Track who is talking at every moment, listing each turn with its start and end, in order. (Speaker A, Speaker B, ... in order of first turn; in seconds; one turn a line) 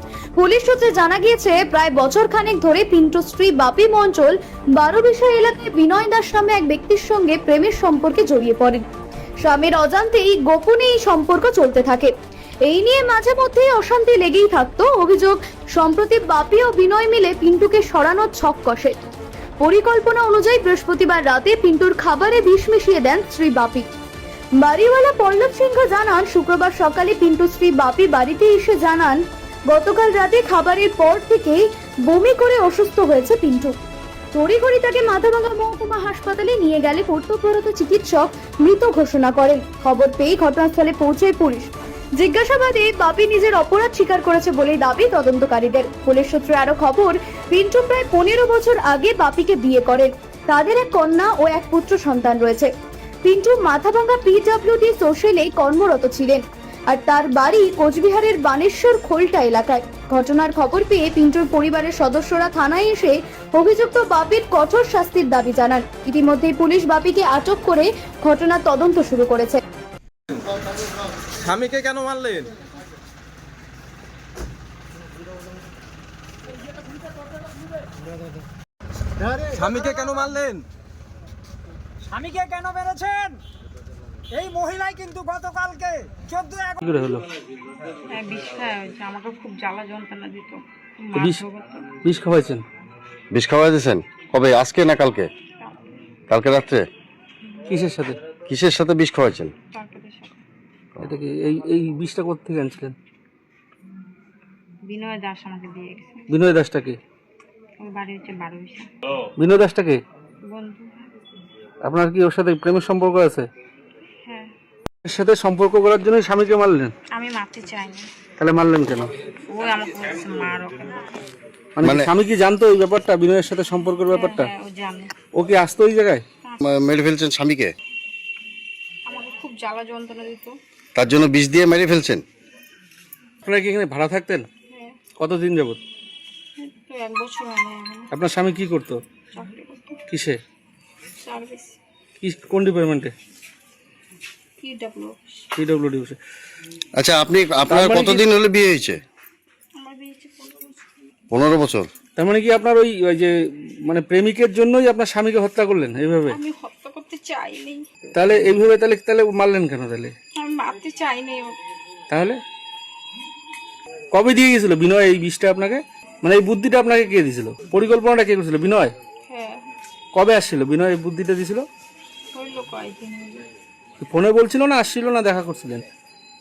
Speaker A: 0.4-8.8
Speaker A: 9.4-12.1
Speaker A: 12.7-19.0
Speaker A: 19.6-23.9
Speaker A: 24.6-33.7
Speaker A: 34.3-52.7
Speaker A: 53.2-69.6
Speaker B: 71.4-72.5
Speaker B: 79.5-80.6
Speaker C: 82.1-83.4
Speaker C: 84.3-86.8
Speaker D: 86.8-87.2
Speaker E: 88.1-91.9
Speaker D: 91.1-91.4
Speaker D: 92.0-92.6
Speaker F: 93.3-95.3
Speaker E: 95.6-96.0
Speaker F: 96.3-96.9
Speaker E: 97.4-97.7
Speaker D: 97.7-98.2
Speaker F: 98.5-99.5
Speaker E: 99.7-100.4
Speaker D: 101.0-102.9
Speaker E: 104.8-106.5
Speaker D: 106.3-107.0
Speaker E: 107.8-108.9
Speaker D: 109.4-110.0
Speaker E: 110.4-111.1
Speaker D: 111.8-113.5
Speaker E: 114.2-114.5
Speaker D: 115.0-116.9
Speaker E: 117.1-118.1
Speaker D: 118.4-119.1
Speaker E: 119.5-121.2
Speaker D: 121.8-124.5
Speaker F: 121.8-122.1
Speaker E: 124.1-125.1
Speaker D: 125.3-126.2
Speaker F: 126.6-127.7
Speaker E: 129.1-130.6
Speaker F: 130.9-132.2
Speaker D: 133.4-134.5
Speaker E: 134.7-135.0
Speaker D: 135.1-135.8
Speaker E: 136.6-138.1
Speaker D: 138.1-139.0
Speaker E: 139.3-140.0
Speaker D: 140.1-140.4
Speaker E: 141.2-141.8
Speaker D: 142.2-143.1
Speaker E: 144.6-145.5
Speaker D: 145.6-146.2
Speaker F: 146.9-149.0
Speaker D: 147.7-148.2
Speaker E: 149.8-150.9
Speaker F: 151.3-151.9
Speaker D: 152.2-153.3
Speaker D: 153.8-156.4
Speaker E: 156.3-157.9
Speaker D: 158.1-160.1
Speaker E: 160.3-161.6
Speaker D: 162.1-162.4
Speaker D: 164.1-168.9
Speaker E: 169.3-169.7
Speaker D: 170.1-171.7
Speaker E: 172.3-173.4
Speaker D: 174.0-175.8